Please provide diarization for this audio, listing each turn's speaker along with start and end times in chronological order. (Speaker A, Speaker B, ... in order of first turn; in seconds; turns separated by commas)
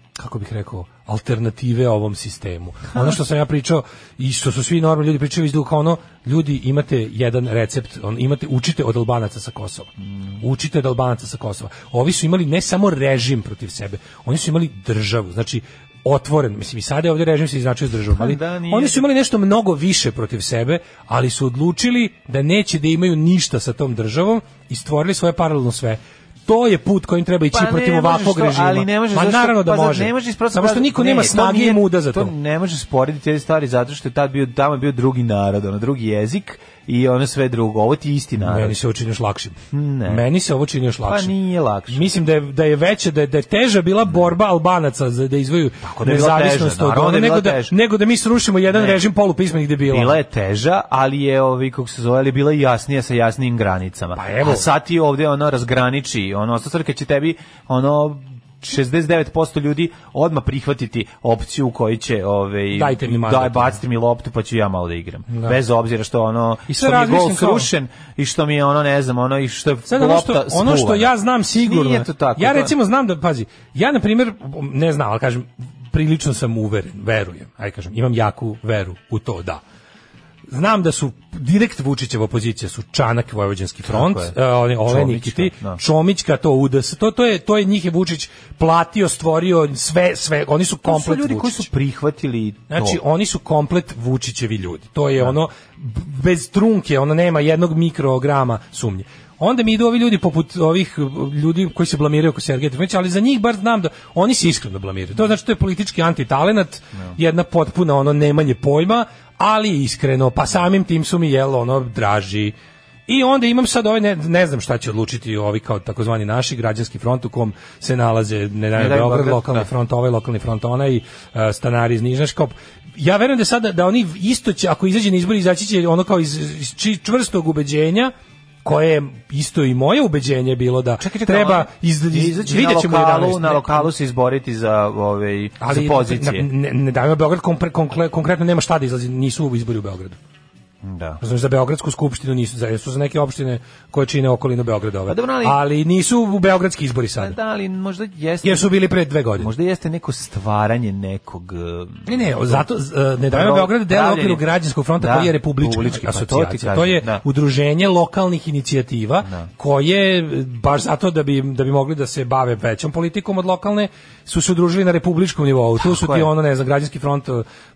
Speaker A: 0.2-9.9, Speaker A: 10.4-32.3, Speaker B: 18.1-19.0, Speaker B: 27.5-38.8, Speaker A: 38.4-41.3, Speaker B: 39.7-40.2, Speaker B: 41.0-42.1, Speaker A: 41.9-50.2, Speaker B: 45.8-47.8, Speaker B: 48.7-49.0, Speaker B: 49.9-72.7, Speaker A: 54.1-54.7, Speaker A: 62.7-63.8, Speaker A: 65.3-65.6, Speaker A: 66.7-67.7, Speaker A: 69.9-79.6, Speaker A: 80.5-91.7, Speaker B: 83.9-85.8, Speaker B: 90.8-93.0, Speaker A: 92.7-112.5, Speaker A: 113.1-128.1, Speaker B: 118.8-119.7, Speaker A: 128.6-133.9, Speaker B: 131.0-136.5, Speaker A: 135.6-140.2, Speaker B: 140.8-141.2, Speaker A: 141.2-147.4, Speaker B: 145.1-145.6, Speaker B: 147.2-148.7, Speaker A: 148.4-149.5, Speaker B: 149.4-152.7, Speaker A: 152.1-167.4, Speaker B: 153.3-154.4, Speaker B: 155.0-157.2, Speaker B: 159.2-159.5, Speaker B: 165.8-166.3